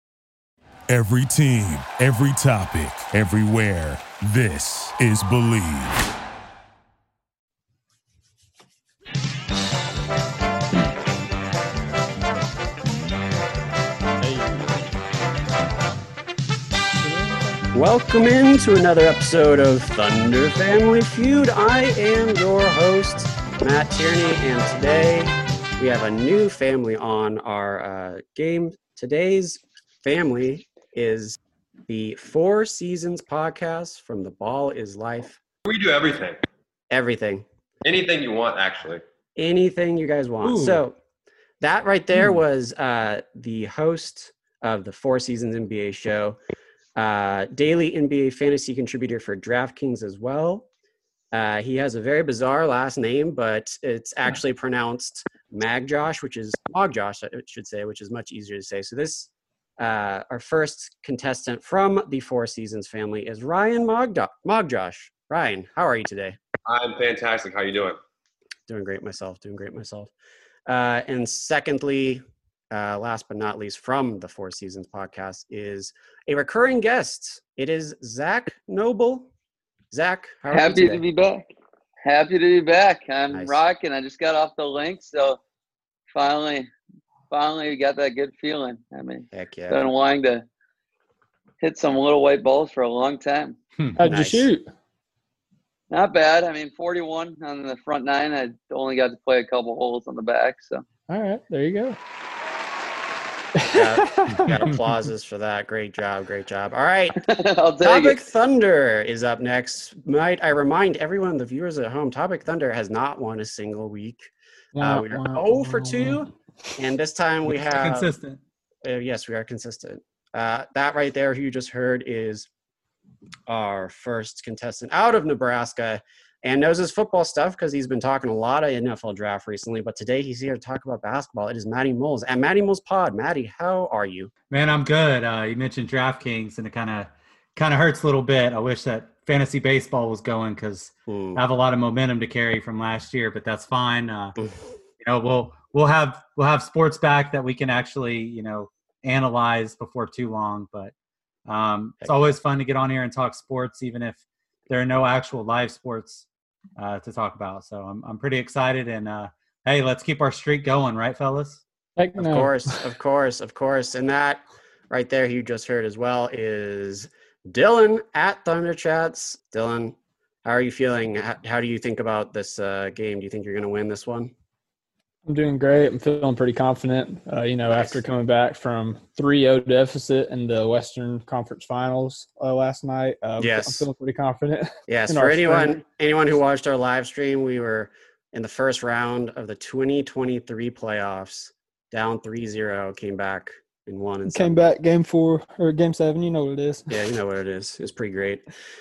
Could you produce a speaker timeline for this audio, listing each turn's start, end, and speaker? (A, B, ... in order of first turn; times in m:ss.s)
0:00.9-0:06.1 A
0:14.2-0:14.9 B
0:17.0-0:17.6 B
0:17.7-0:35.4 C
0:35.6-0:36.4 D
0:36.9-0:37.4 C
0:37.8-0:39.0 D
0:39.4-0:41.0 C
0:40.4-0:40.8 D
0:41.6-0:46.4 C
0:47.0-0:50.7 C
0:51.3-1:06.4 C
1:06.7-1:08.0 D
1:08.7-1:10.1 C
1:10.7-1:19.3 C
1:19.9-1:21.0 C
1:20.5-1:21.5 E
1:22.0-1:25.4 E
1:23.3-1:23.6 C
1:26.1-1:26.7 E
1:27.3-1:30.4 E
1:29.3-1:29.8 C
1:31.6-1:33.6 E
1:33.8-1:34.0 F
1:34.0-1:34.7 B
1:34.0-1:34.5 C
1:35.9-1:40.8 E
1:41.1-1:42.0 B
1:43.6-1:44.5 B
1:43.7-1:47.2 C
1:44.3-1:44.7 F
1:47.2-1:48.3 E
1:47.8-1:54.3 C
1:54.8-1:56.3 B
1:54.8-1:58.1 C
1:57.5-1:58.4 F
1:58.8-2:02.5 C
2:03.5-2:14.3 C
2:14.5-2:24.4 F
2:21.1-2:21.4 C
2:25.0-2:30.9 F
2:31.5-2:36.3 F
2:32.0-2:32.4 C
2:36.8-2:41.6 F
2:42.0-2:42.8 B
2:42.2-2:54.3 C
2:55.3-3:05.8 B
2:57.7-2:58.0 C
3:03.4-3:03.9 C
3:04.9-3:14.6 C
3:14.3-3:17.0 B
3:16.9-3:18.4 C